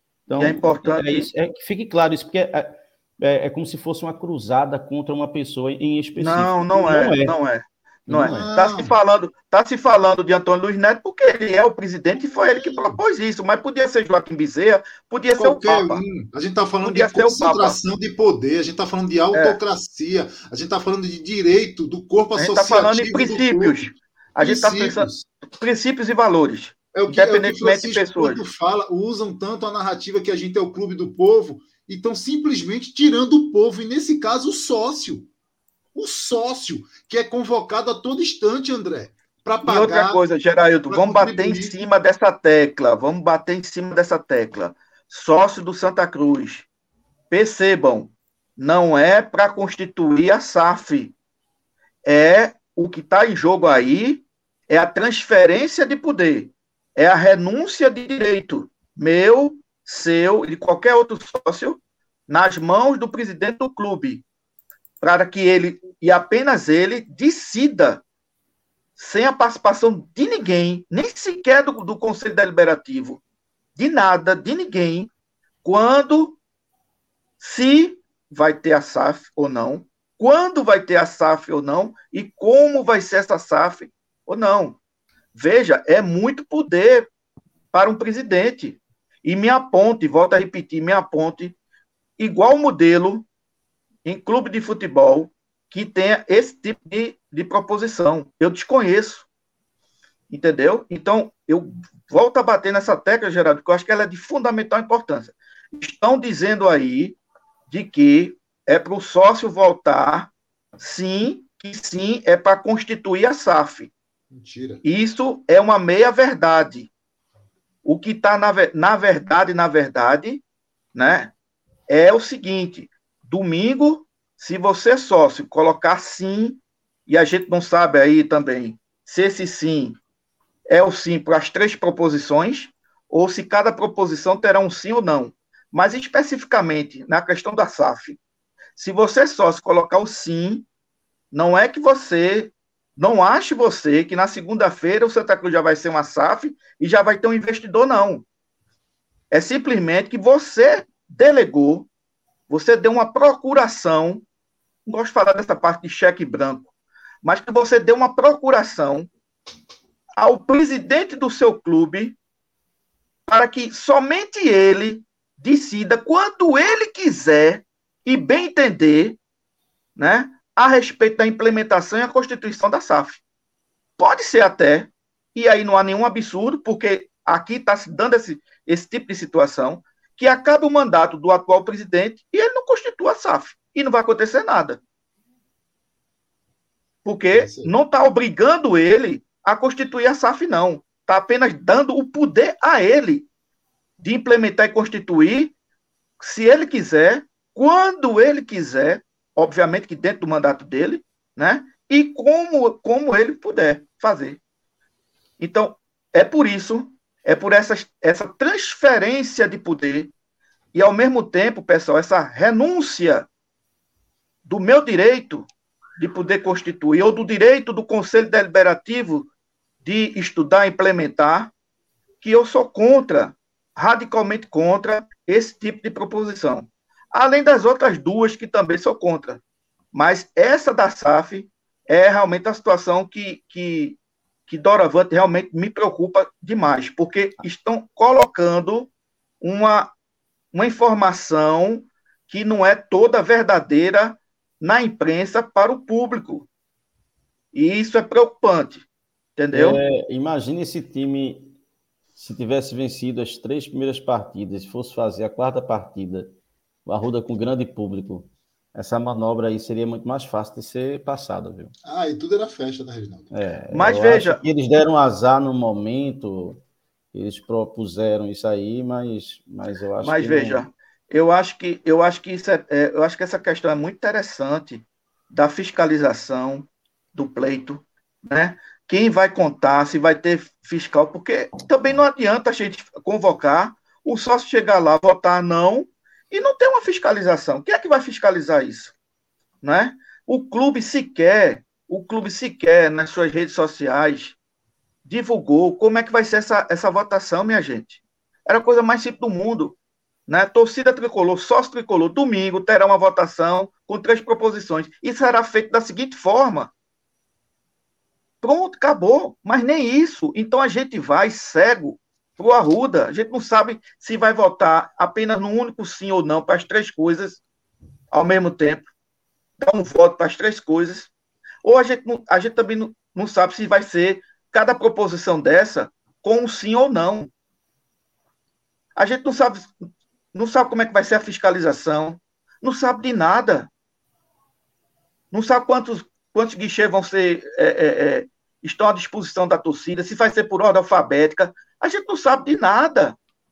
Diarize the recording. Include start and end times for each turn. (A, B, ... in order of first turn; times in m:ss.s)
0:00.3-0:07.4 A
0:00.4-0:01.3 B
0:06.2-0:16.0 B
0:08.1-0:08.4 A
0:08.3-0:08.9 C
0:12.2-0:13.0 C
0:15.4-0:25.3 C
0:16.8-0:17.8 B
0:19.3-0:19.6 B
0:22.4-0:28.4 B
0:26.9-0:35.3 C
0:35.9-0:40.3 C
0:39.6-0:46.6 B
0:40.9-0:41.8 C
0:47.3-0:51.1 B
0:52.0-1:04.2 B
1:05.0-1:08.0 B
1:09.0-1:13.2 B
1:13.8-1:15.1 B
1:15.6-1:16.4 B
1:17.4-1:24.8 B
1:25.3-1:27.1 B
1:27.7-1:31.6 B
1:32.2-1:33.2 B
1:34.0-1:39.2 B
1:40.3-1:47.2 B
1:47.7-1:53.9 B
1:54.3-1:54.8 C
1:54.8-1:56.9 B
1:57.8-2:00.4 B
2:00.9-2:01.3 B
2:01.9-2:10.0 B
2:10.7-2:18.2 B
2:18.8-2:20.6 B
2:21.3-2:28.2 B
2:29.3-2:31.9 B
2:32.5-2:34.2 B
2:34.8-2:36.7 B
2:37.2-2:39.1 B
2:40.2-2:42.2 B
2:43.3-2:49.2 B
2:50.0-2:53.2 B
2:54.0-3:04.8 B
3:07.0-3:13.2 B
3:07.3-3:07.7 C
3:14.0-3:15.5 B
3:16.2-3:24.4 B
3:25.4-3:30.1 B
3:30.7-3:33.2 B
3:34.4-3:39.3 B
3:39.8-3:41.5 B
3:42.2-3:49.4 B
3:49.9-3:58.9 B
3:59.4-3:59.9 B
4:00.5-4:06.5 B
4:07.5-4:08.8 B
4:09.4-4:09.8 B
4:09.5-4:11.5 A
4:12.2-4:21.7 A
4:21.8-4:23.3 C
4:23.3-4:26.6 A
4:23.7-4:24.4 B
4:27.1-4:30.6 A
4:30.0-4:48.9 B
4:49.6-4:54.4 B
4:55.0-5:06.7 B
5:08.4-5:17.4 B
5:18.1-5:18.8 B
5:19.6-5:21.1 B
5:21.6-5:27.3 B
5:29.0-5:29.7 B
5:30.3-5:33.7 B
5:35.3-5:43.2 B